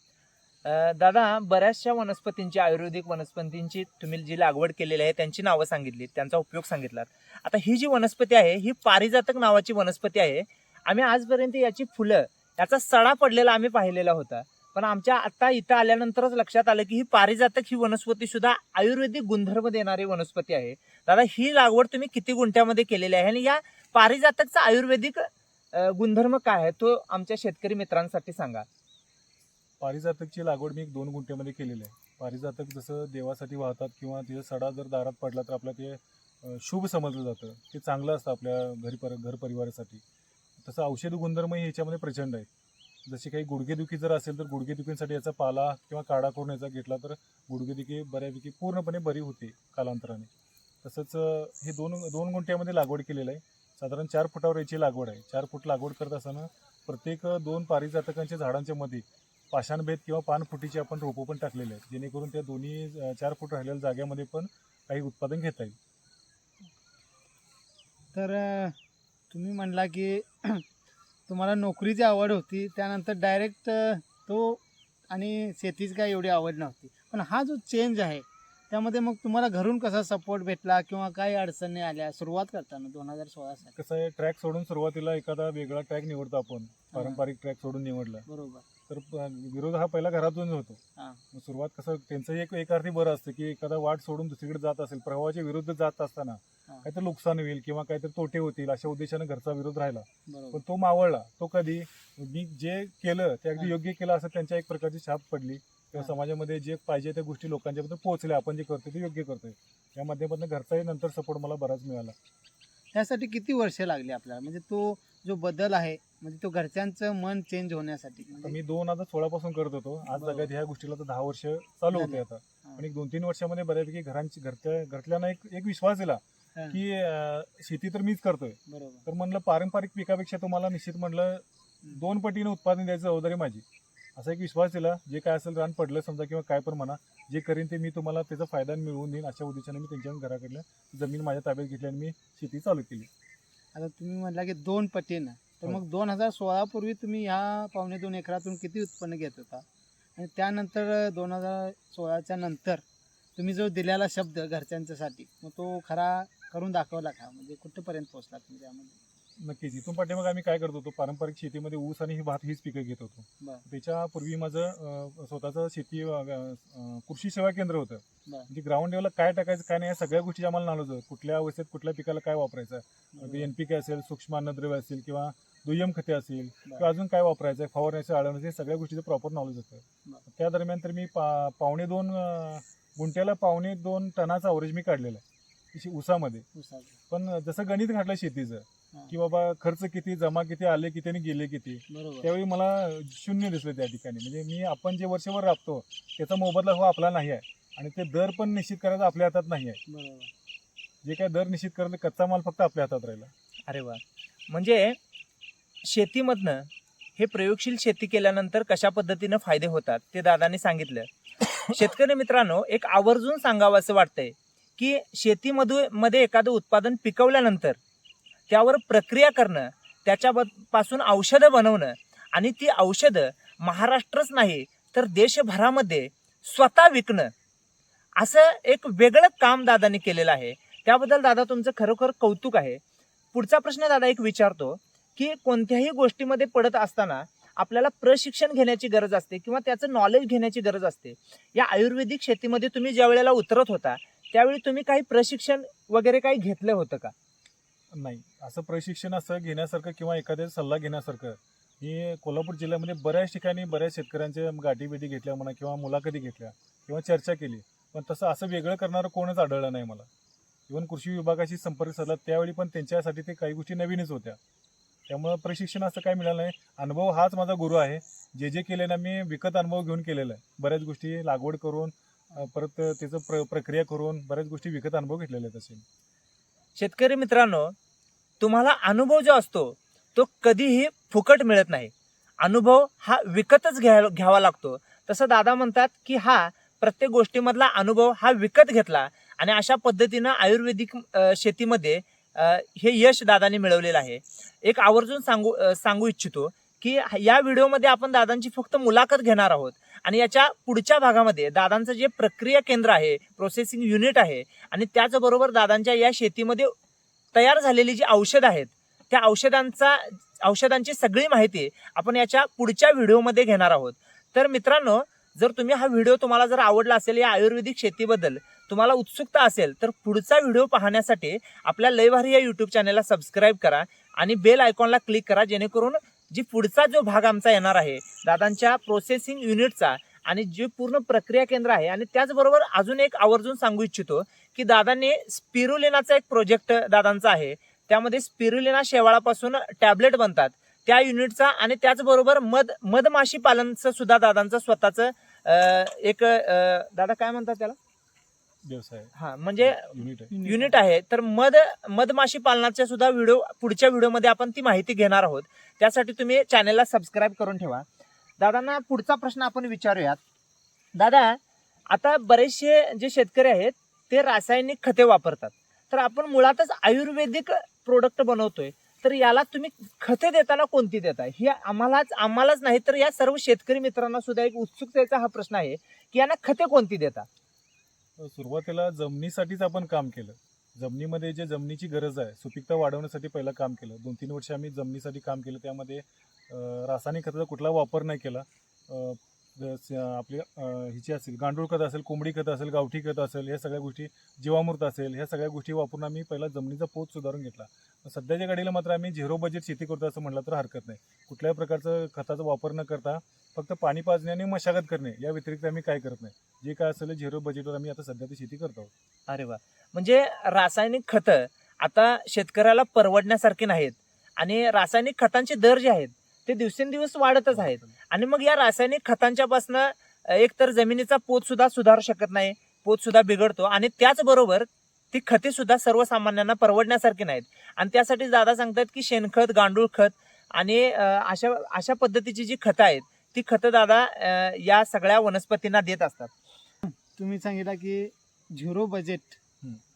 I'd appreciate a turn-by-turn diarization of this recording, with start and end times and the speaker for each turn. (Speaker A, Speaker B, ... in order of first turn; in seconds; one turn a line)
Speaker A: 0.7-28.7
Speaker B: 29.8-40.0
Speaker B: 40.6-42.5
Speaker B: 43.1-50.3
Speaker B: 50.8-65.8
Speaker C: 68.1-68.8
Speaker C: 69.3-70.6
Speaker C: 71.3-83.7
Speaker B: 83.8-88.3
Speaker C: 86.9-87.2
Speaker C: 88.3-88.7
Speaker B: 88.9-112.2
Speaker C: 100.3-100.6
Speaker C: 112.9-118.6
Speaker B: 118.4-133.7
Speaker C: 120.1-120.5
Speaker C: 121.9-122.8
Speaker C: 128.7-129.0
Speaker B: 134.2-143.1
Speaker C: 143.7-149.7
Speaker C: 150.2-152.8
Speaker C: 153.4-159.0
Speaker B: 159.4-186.5
Speaker C: 173.1-173.5
Speaker C: 186.6-187.0
Speaker B: 187.1-199.8
Speaker C: 191.9-192.3
Speaker C: 199.9-200.3
Speaker B: 201.0-203.3
Speaker A: 203.7-205.0
Speaker A: 205.8-211.1
Speaker A: 211.7-217.8
Speaker A: 218.5-227.3
Speaker A: 228.2-232.8
Speaker A: 233.3-247.1
Speaker B: 247.9-260.1
Speaker B: 260.7-264.4
Speaker B: 265.1-275.8
Speaker A: 276.8-277.8
Speaker A: 278.4-306.7
Speaker A: 307.3-347.8
Speaker B: 348.6-350.3
Speaker A: 349.2-357.9
Speaker C: 350.3-350.8
Speaker A: 358.4-360.2
Speaker A: 360.9-377.3
Speaker B: 378.2-408.9
Speaker A: 409.3-436.3
Speaker B: 417.6-417.9
Speaker C: 436.9-439.4